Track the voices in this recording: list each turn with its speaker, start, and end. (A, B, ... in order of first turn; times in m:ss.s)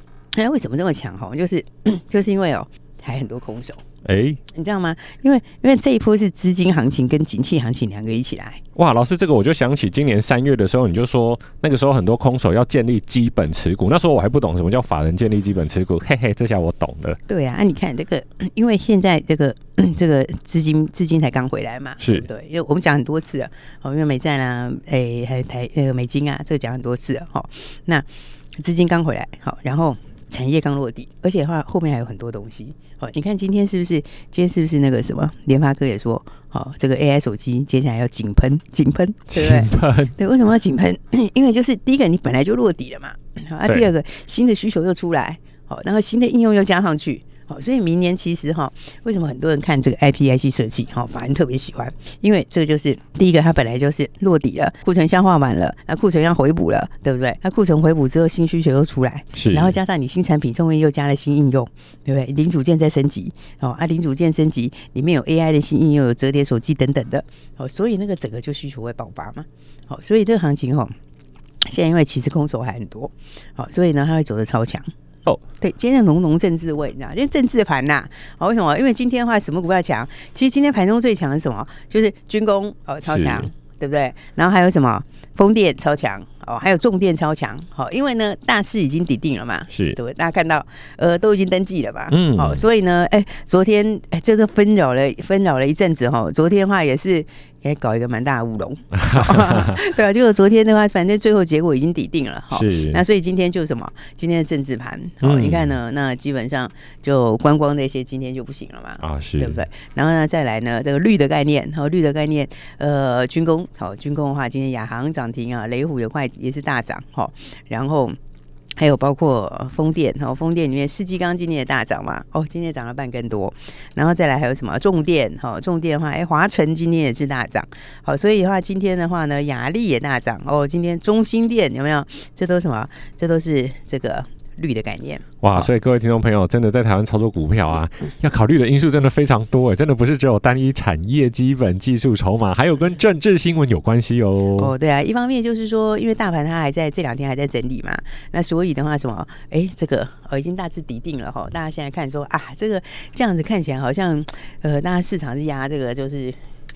0:00.3-0:03.8 A
0:04.0-0:04.4 B
0:04.5-0:08.6 A
0:08.8-0:17.2 B
0:17.3-0:28.1 A
0:22.0-0:22.3 B
0:28.6-1:10.9 A
0:39.3-0:40.1 B
0:59.3-0:59.8 B
1:11.7-1:14.9 A
1:15.5-1:58.2 A
1:23.0-1:23.5 B
1:29.7-1:30.0 B
1:32.1-1:32.6 B
1:39.0-1:39.8 B
1:42.5-1:43.0 B
1:45.2-1:45.8 B
1:49.0-1:49.6 B
1:58.8-2:15.7 A
2:15.4-2:24.7 B
2:24.6-2:36.4 A